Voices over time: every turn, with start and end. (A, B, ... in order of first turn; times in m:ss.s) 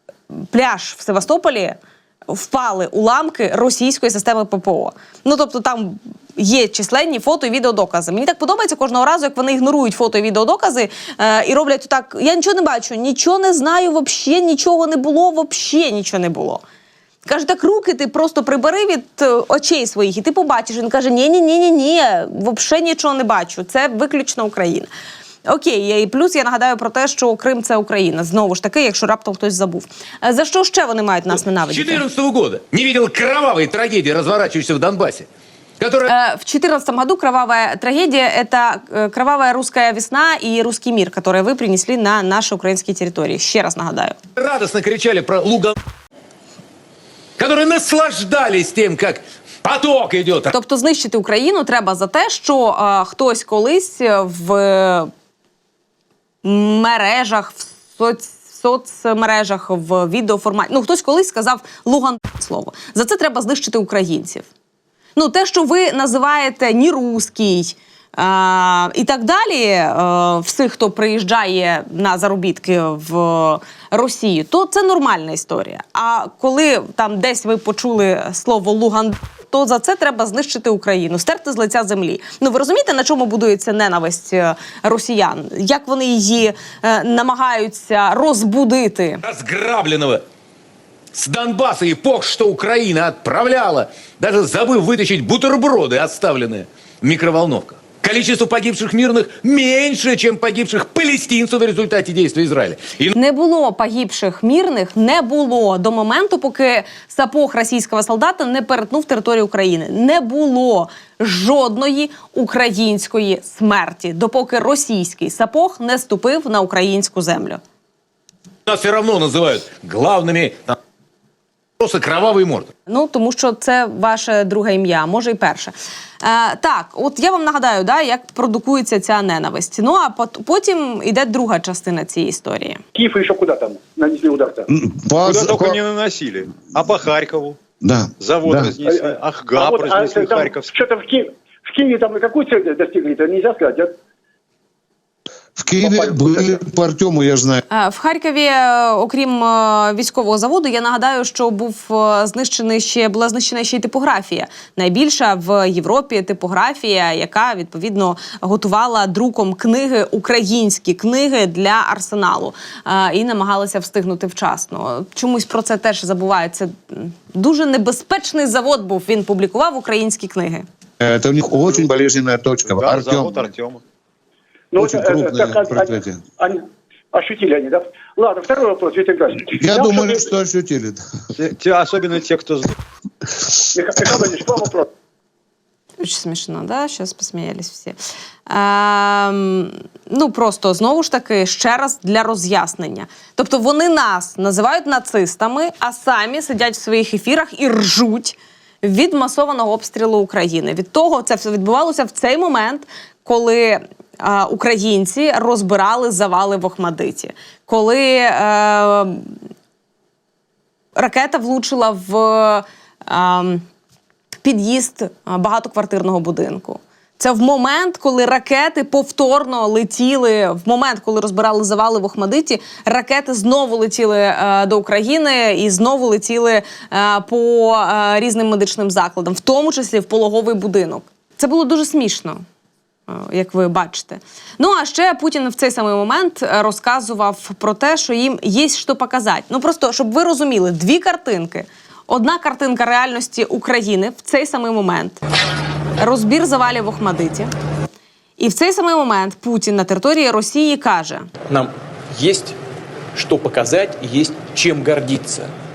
0:00.3-0:16.6 A
0:17.2-0:24.9 A
0:25.5-0:32.0 A
0:31.3-0:35.3 B
0:35.8-0:36.1 B
0:36.1-0:44.2 A
0:44.4-0:45.8 B
0:47.4-0:50.6 B
0:50.5-0:55.1 A
0:56.4-1:04.5 A
1:05.2-1:29.2 A
1:29.2-1:30.2 B
1:31.1-1:43.1 B
1:43.1-1:57.6 A
1:58.7-2:00.8 B
2:01.8-2:02.7 B
2:02.9-2:12.8 A
2:13.0-2:14.7 C
2:14.7-2:15.9 D
2:15.2-2:17.6 E
2:17.8-2:18.8 D
2:18.2-2:20.7 E
2:18.8-2:24.0 C
2:25.6-2:27.6 D
2:25.8-2:26.7 C
2:27.7-2:50.7 A
2:51.0-2:53.5 D
2:52.6-2:53.8 E
2:54.7-3:00.4 C
2:54.8-2:56.2 D
2:59.5-3:01.0 D
3:01.4-3:02.7 E
3:03.7-3:04.9 C
3:06.0-3:29.3 A
3:31.0-3:33.6 A
3:34.4-3:52.4 A
3:53.1-4:05.2 A
4:06.0-4:07.5 A
4:08.4-4:11.3 A
4:11.5-4:12.6 F
4:13.2-4:15.5 F